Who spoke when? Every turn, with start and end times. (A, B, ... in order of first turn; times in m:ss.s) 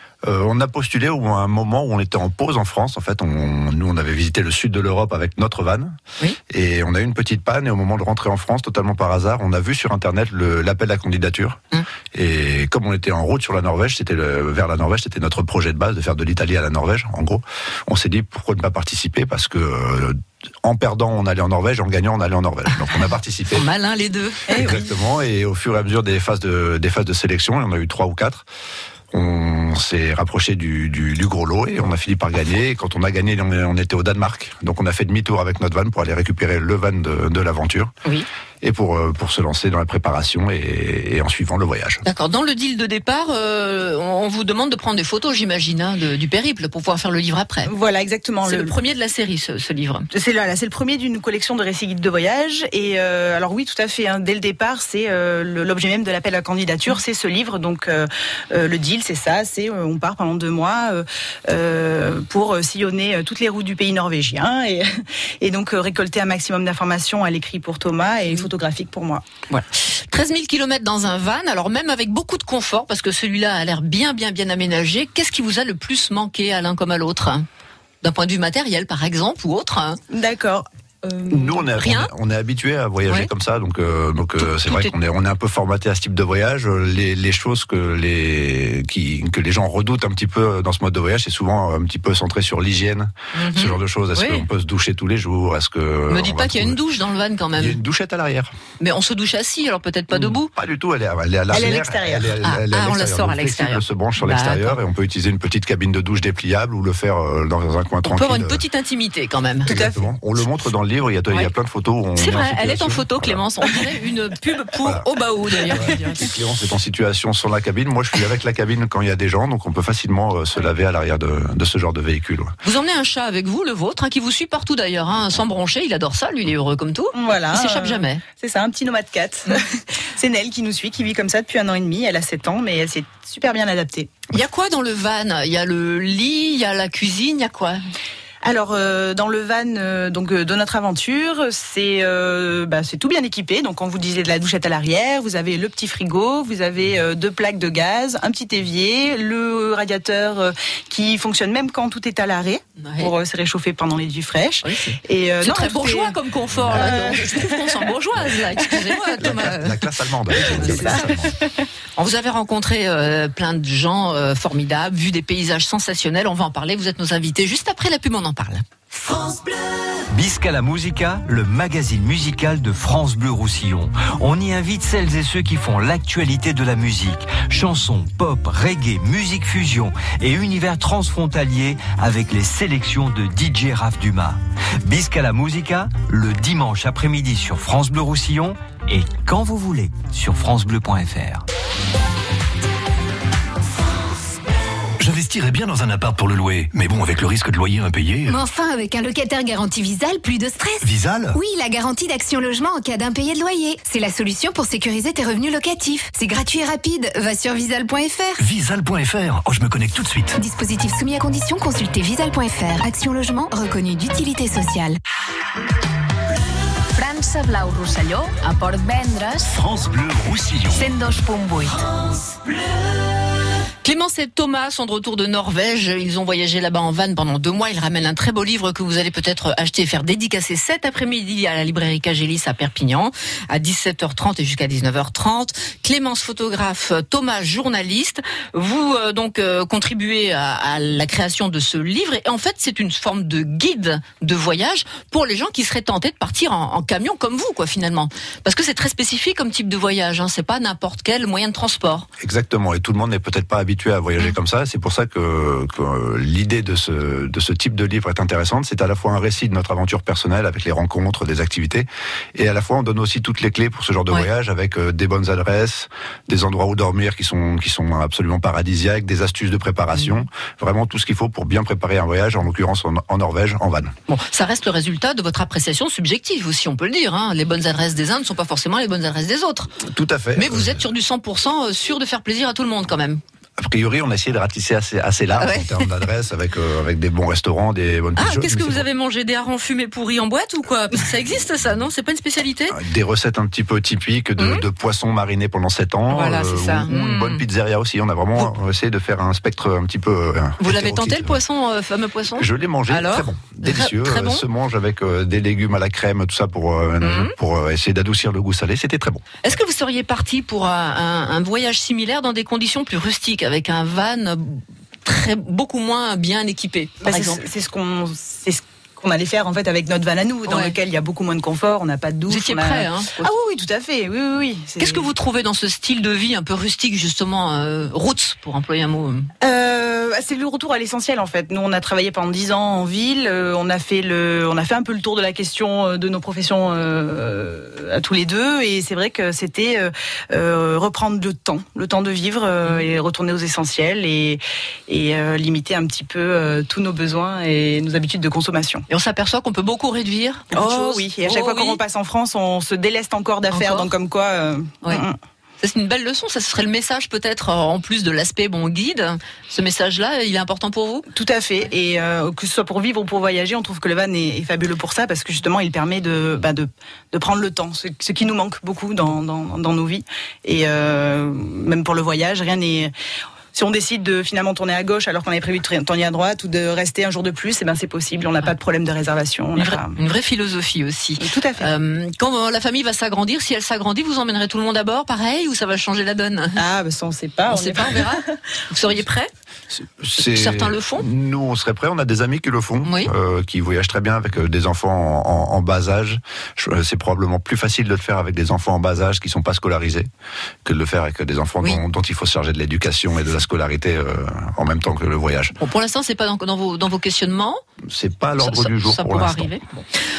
0:00.2-0:05.9 A
0:06.5-0:11.6 A
0:12.1-0:23.7 A
0:23.5-0:24.8 B
0:24.5-0:28.4 A
0:29.1-0:37.9 A
0:38.6-0:42.0 A
0:42.0-0:47.7 B
0:47.6-0:48.7 C
0:48.4-0:50.1 B
0:50.1-1:04.9 C
1:05.4-1:09.2 C
1:09.5-1:17.4 B
1:18.0-1:20.0 B
1:20.1-1:21.7 C
1:21.3-1:36.8 A
1:21.8-1:22.1 B
1:24.4-1:24.9 B
1:33.3-1:34.4 B
1:36.1-1:37.8 B
1:37.5-1:38.5 A
1:38.8-1:40.5 B
1:40.1-1:48.6 A
1:41.5-1:42.3 C
1:42.4-1:44.8 B
1:48.0-1:49.8 B
1:49.6-1:50.1 C
1:49.6-1:53.4 A
1:52.2-1:56.3 B
1:55.7-2:02.5 A
2:02.6-2:08.2 B
2:07.1-2:14.1 C
2:14.3-2:17.8 B
2:18.4-2:36.2 C
2:32.8-2:33.1 B
2:34.6-2:41.1 B
2:36.6-2:37.3 A
2:36.7-2:37.9 C
2:39.2-2:41.3 A
2:40.3-2:41.6 C
2:42.0-2:48.6 B
2:50.1-3:11.4 D
3:15.0-3:18.4 E
3:18.2-3:28.4 F
3:20.8-3:21.4 E
3:28.4-3:30.4 E
3:30.4-3:35.0 F
3:37.0-3:39.6 G
3:39.5-3:40.9 E
3:40.7-3:41.8 G
3:43.8-4:12.1 B
4:12.2-4:33.9 A
4:34.1-4:39.8 B
4:39.9-4:40.8 A
4:40.3-4:43.2 B
4:43.6-4:48.8 A
4:45.4-4:45.9 B
4:48.2-4:52.8 B
4:52.7-5:01.4 A
4:54.4-4:54.6 B
4:56.1-4:57.4 B
5:00.6-5:04.4 B
5:02.4-5:09.4 A
5:07.0-5:07.3 B
5:09.4-5:17.4 B
5:17.0-5:25.1 C
5:20.4-5:20.8 B
5:22.3-5:23.3 B
5:24.8-5:29.3 B
5:29.4-5:48.8 C
5:48.9-5:51.8 B
5:50.5-5:55.2 C
5:53.5-5:53.9 B
5:55.6-6:01.0 B
6:01.1-6:12.9 C
6:13.5-6:20.0 C
6:19.6-6:26.6 B
6:21.2-6:21.7 C
6:26.6-6:28.4 C
6:27.5-6:29.3 B
6:29.7-6:40.1 A
6:30.2-6:31.1 B
6:32.8-6:33.1 B
6:40.6-6:45.5 A
6:45.6-6:47.6 B
6:47.9-6:49.7 A
6:48.4-6:49.6 B